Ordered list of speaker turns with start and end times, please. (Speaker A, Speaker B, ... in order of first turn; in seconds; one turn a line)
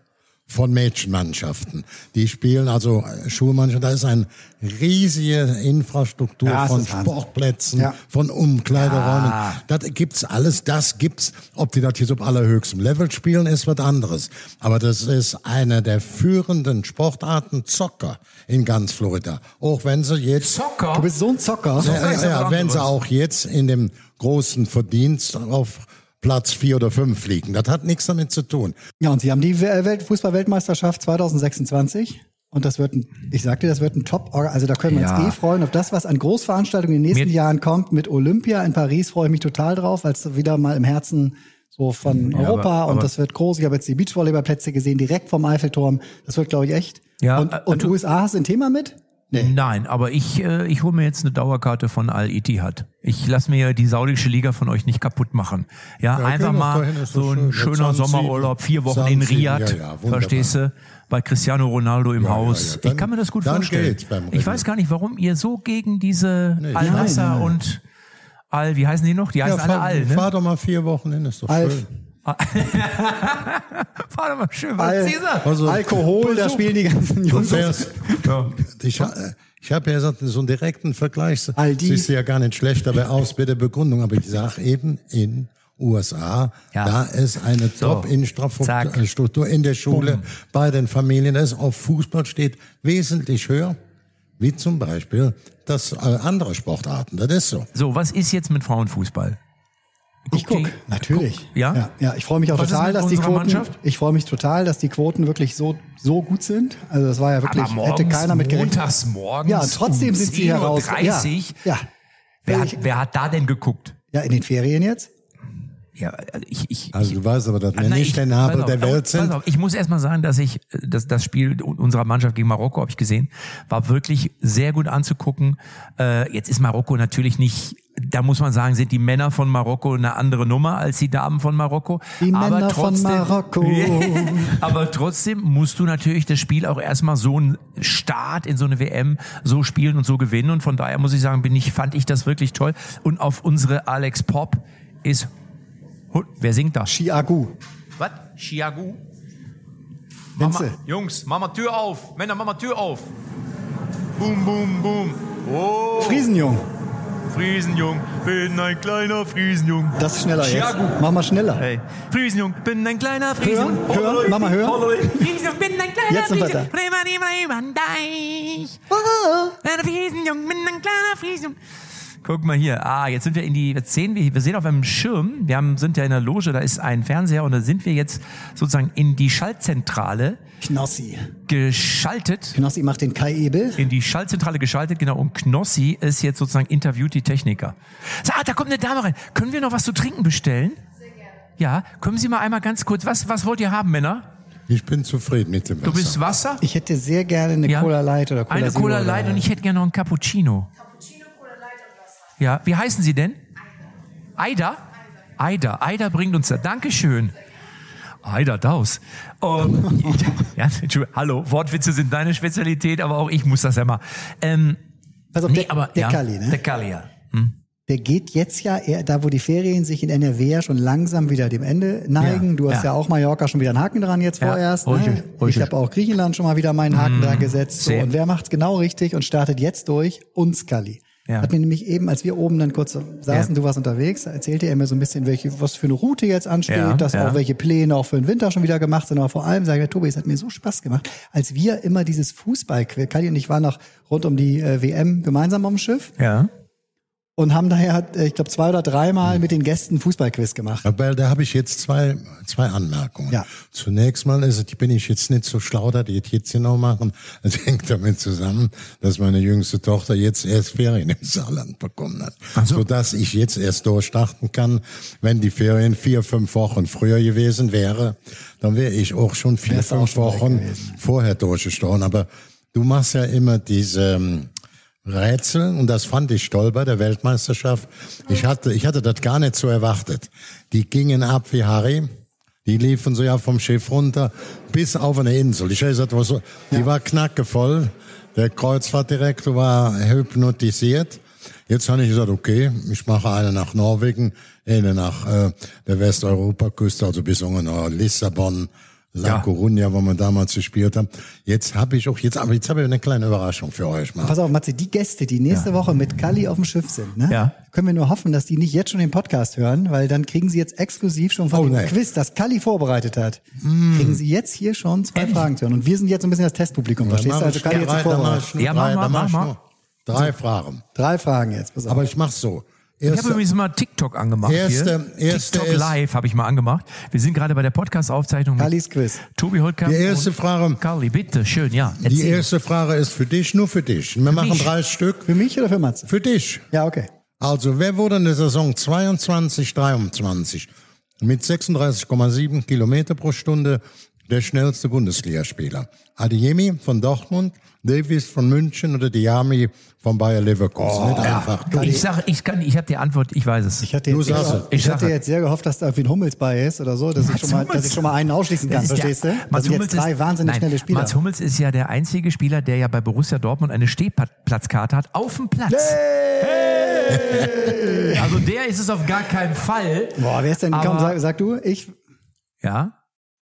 Speaker A: 0.5-20.6
Speaker B: 6.4-7.1
Speaker C: 8.8-9.6
Speaker C: 20.4-21.1
Speaker B: 20.9-22.0
Speaker C: 21.8-22.9
Speaker A: 21.8-28.8
Speaker B: 29.0-49.5
Speaker C: 34.8-35.4
Speaker C: 42.3-43.1
Speaker C: 47.2-47.9
Speaker C: 49.3-67.8
Speaker A: 56.1-60.5
Speaker A: 62.2-64.6
Speaker A: 66.6-67.2
Speaker B: 66.8-67.5
Speaker C: 68.5-70.3
Speaker A: 69.5-71.9
Speaker B: 71.5-71.9
Speaker C: 72.2-76.7
Speaker B: 74.8-78.2
Speaker A: 75.4-76.0
Speaker A: 77.3-93.8
Speaker C: 78.2-78.5
Speaker B: 81.5-82.1
Speaker C: 86.7-87.0
Speaker C: 87.7-88.1
Speaker C: 88.6-89.0
Speaker C: 89.9-90.2
Speaker A: 94.4-97.7
Speaker C: 97.7-99.4
Speaker C: 100.3-101.8
Speaker B: 100.3-108.8
Speaker C: 102.5-103.7
Speaker C: 107.4-111.6
Speaker B: 109.5-111.8
Speaker C: 112.5-114.0
Speaker B: 112.5-112.8
Speaker B: 114.1-115.1
Speaker C: 116.0-117.2
Speaker A: 116.9-119.4
Speaker C: 117.7-145.3
Speaker B: 132.2-134.7
Speaker C: 146.1-146.9
Speaker B: 146.9-147.5
Speaker C: 148.0-149.0
Speaker B: 150.4-150.8
Speaker C: 150.4-153.1
Speaker C: 154.2-156.3
Speaker B: 155.9-156.7
Speaker C: 157.3-161.0
Speaker B: 160.0-161.6
Speaker C: 161.6-168.8
Speaker B: 163.4-165.3
Speaker B: 166.1-166.7
Speaker B: 168.9-169.5
Speaker C: 169.6-171.6
Speaker C: 172.2-180.4
Speaker B: 180.6-181.3
Speaker C: 181.5-182.6
Speaker B: 182.5-183.8
Speaker C: 183.8-190.8
Speaker C: 191.6-194.2
Speaker A: 194.7-196.2
Speaker C: 195.8-196.6
Speaker B: 196.6-199.5
Speaker C: 197.7-197.9
Speaker C: 198.5-200.7
Speaker C: 202.4-203.4
Speaker C: 204.4-204.8
Speaker C: 205.4-207.3
Speaker C: 208.2-214.8
Speaker B: 215.3-216.6
Speaker C: 215.4-217.5
Speaker B: 217.9-246.1
Speaker C: 222.2-222.9
Speaker C: 224.4-225.7
Speaker C: 226.9-228.1
Speaker C: 236.7-237.4
Speaker C: 246.2-246.5
Speaker B: 247.4-250.8
Speaker A: 250.8-274.5
Speaker C: 262.5-262.8
Speaker B: 269.7-271.0
Speaker A: 275.0-282.1
Speaker A: 282.6-304.4
Speaker B: 304.2-318.5
Speaker C: 307.3-307.6
Speaker A: 311.5-311.9
Speaker A: 313.6-314.2
Speaker C: 315.1-315.4
Speaker A: 317.0-320.8
Speaker C: 318.6-319.5
Speaker B: 320.9-322.0
Speaker A: 321.9-323.4
Speaker C: 323.1-328.7
Speaker A: 324.4-325.9
Speaker B: 328.6-329.2
Speaker C: 329.3-332.5
Speaker A: 329.8-330.8
Speaker A: 332.0-335.3
Speaker C: 334.3-334.7
Speaker B: 335.3-336.1
Speaker A: 336.1-336.7
Speaker B: 336.7-337.1
Speaker A: 337.4-340.7
Speaker A: 341.2-352.0
Speaker B: 350.8-352.0
Speaker C: 351.2-355.1
Speaker B: 353.8-361.2
Speaker A: 354.1-354.7
Speaker C: 357.2-358.0
Speaker C: 358.7-371.1
Speaker B: 365.7-368.4
Speaker B: 370.2-371.9
Speaker C: 372.6-372.9